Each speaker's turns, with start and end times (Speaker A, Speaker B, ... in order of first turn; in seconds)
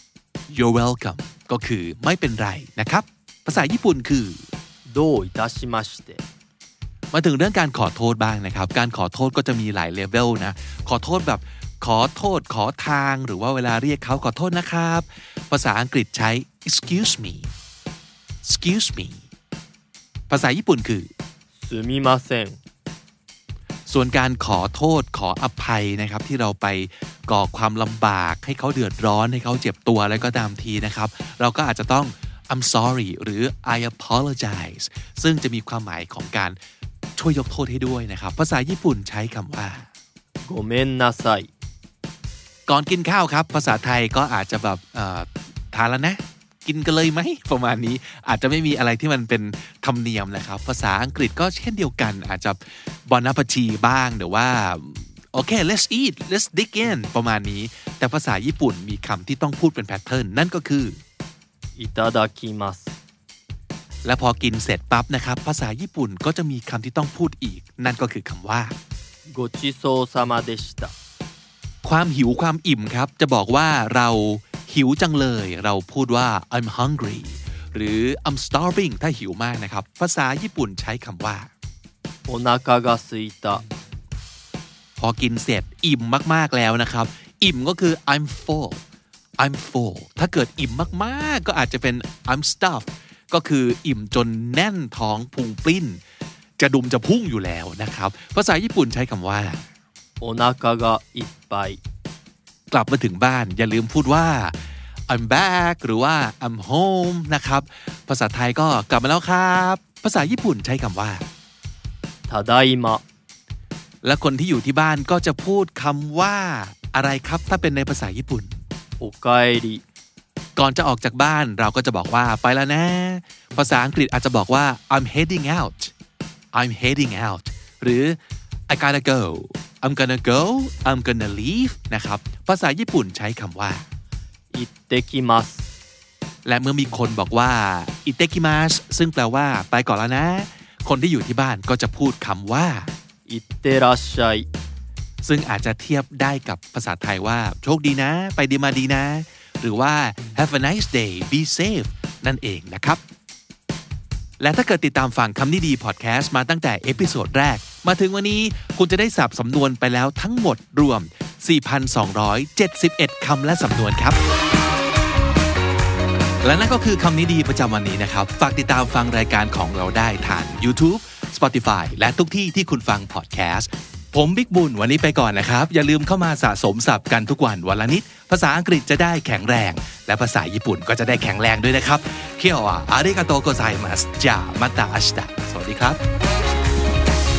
Speaker A: 0.5-4.4, 7.1-17.5, 18.4-19.2, 20.3-21.1, 23.9-36.6, 37.2-39.9, 42.7-61.0, 64.0-68.8, 71.8-81.5, 85.0-88.8, 89.4-96.0, 96.6-99.7, 102.7-111.2, 114.0-118.6, 120.5-125.9, 126.5-128.2, 128.7-133.8, 136.4-142.9, 145.2-153.0, 154.4-164.2, 166.4-186.0
Speaker B: 4.9-6.2, 21.6-22.6, 40.5-41.5, 61.8-62.9, 69.3-70.9, 82.3-83.6, 100.2-101.8, 112.3-113.0, 119.0-119.8, 134.5-135.7, 143.3-144.5